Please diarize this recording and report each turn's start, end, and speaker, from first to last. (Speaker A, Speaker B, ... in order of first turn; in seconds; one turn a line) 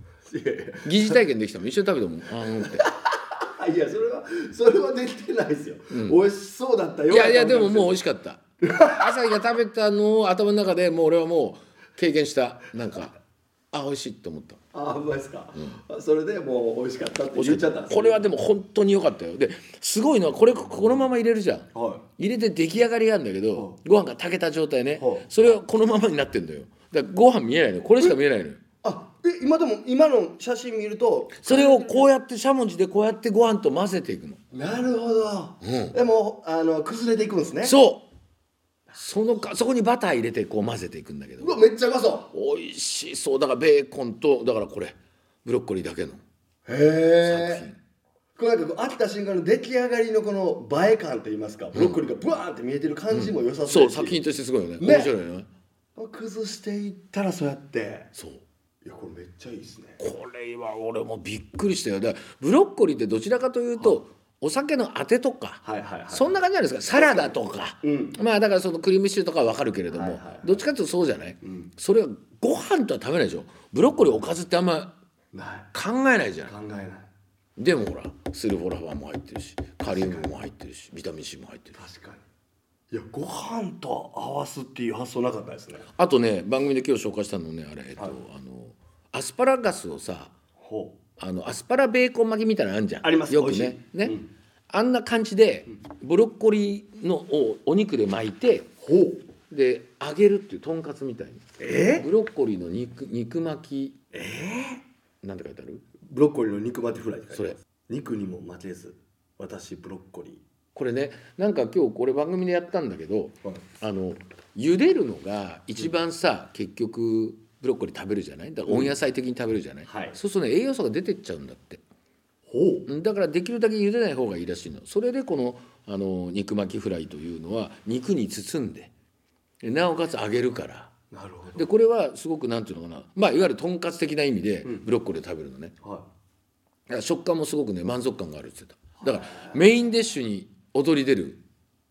Speaker A: 0.3-1.2
Speaker B: 0.8-2.9
Speaker A: 2.4-8.0
Speaker B: 5.9-6.2
Speaker B: 7.1-13.2
Speaker A: 8.6-9.3
Speaker B: 13.7-14.6
Speaker A: 14.7-18.3
Speaker B: 15.6-15.8
Speaker B: 17.3-28.6
Speaker A: 21.7-22.1
Speaker A: 25.0-25.3
Speaker A: 28.8-32.1
Speaker B: 31.4-34.4
Speaker A: 34.5-37.8
Speaker B: 35.6-36.0
Speaker B: 37.6-38.1
Speaker B: 38.9-41.6
Speaker A: 41.4-42.3
Speaker B: 42.3-46.2
Speaker A: 46.7-47.7
Speaker B: 47.2-47.8
Speaker A: 48.4-54.2
Speaker B: 51.7-52.0
Speaker B: 53.1-55.5
Speaker A: 54.8-55.1
Speaker A: 56.0-58.1
Speaker B: 58.1-58.4
Speaker A: 58.8-60.0
Speaker B: 60.0-75.0
Speaker A: 65.6-66.4
Speaker A: 66.9-68.2
Speaker A: 69.9-70.7
Speaker A: 71.4-71.7
Speaker A: 75.3-75.7
Speaker B: 75.7-76.5
Speaker A: 76.5-77.1
Speaker B: 77.6-81.8
Speaker A: 79.8-80.4
Speaker A: 81.7-82.2
Speaker A: 82.9-85.9
Speaker B: 85.9-90.3
Speaker A: 90.6-91.0
Speaker B: 91.2-94.2
Speaker A: 93.0-94.3
Speaker B: 94.7-98.7
Speaker A: 98.8-99.2
Speaker B: 99.5-104.0
Speaker A: 101.6-102.1
Speaker A: 104.1-104.8
Speaker B: 105.2-105.8
Speaker A: 106.0-110.4
Speaker B: 110.8-121.8
Speaker A: 118.7-119.0
Speaker A: 119.8-120.2
Speaker A: 122.5-122.9
Speaker B: 122.9-128.9
Speaker B: 129.6-130.9
Speaker A: 131.1-131.7
Speaker B: 131.6-135.8
Speaker B: 136.9-141.4
Speaker A: 139.0-139.6